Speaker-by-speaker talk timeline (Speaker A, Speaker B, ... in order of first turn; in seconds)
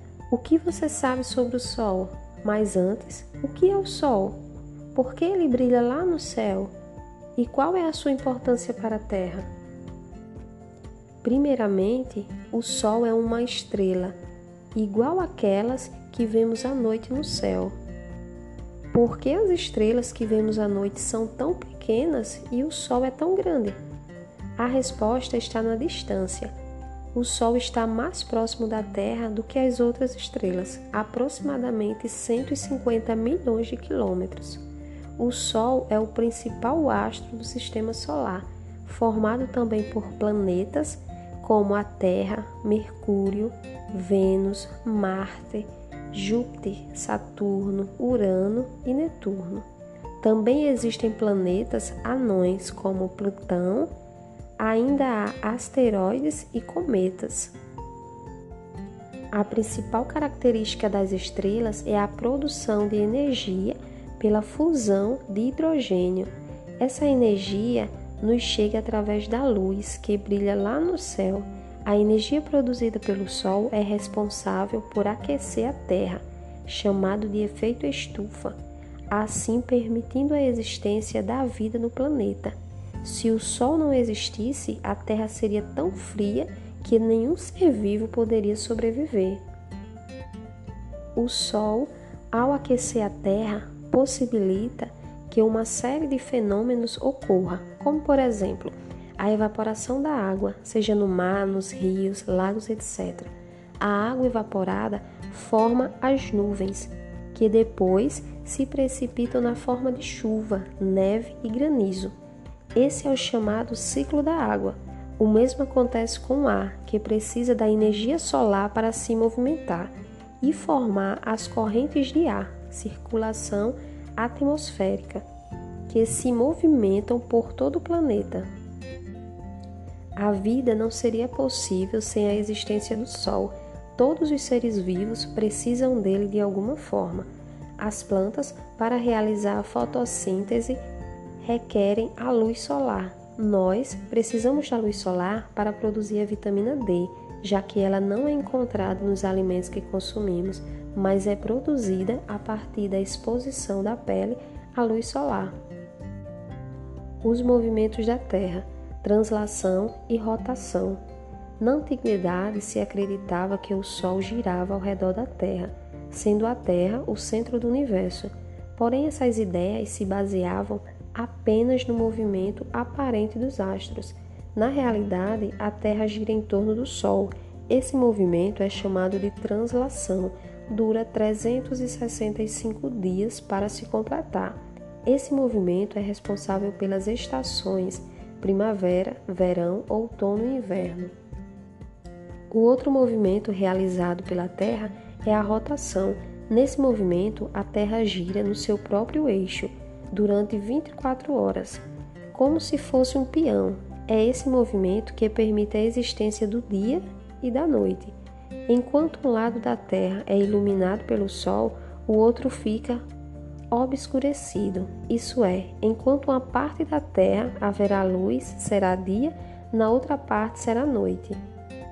Speaker A: 0.3-4.4, 4.9-6.7, 7.3-9.5, 11.2-14.1, 14.7-17.7, 18.9-23.8, 24.6-26.5, 27.1-34.6, 35.2-49.6, 50.2-53.9, 54.6-57.5, 59.3-78.6, 79.1-89.4, 91.2-112.1, 112.7-125.2, 125.9-128.5, 130.2-137.3, 137.8-140.8, 141.4-155.5, 157.2-161.0, 161.6-191.1, 192.5-208.1, 208.7-213.0, 213.7-221.4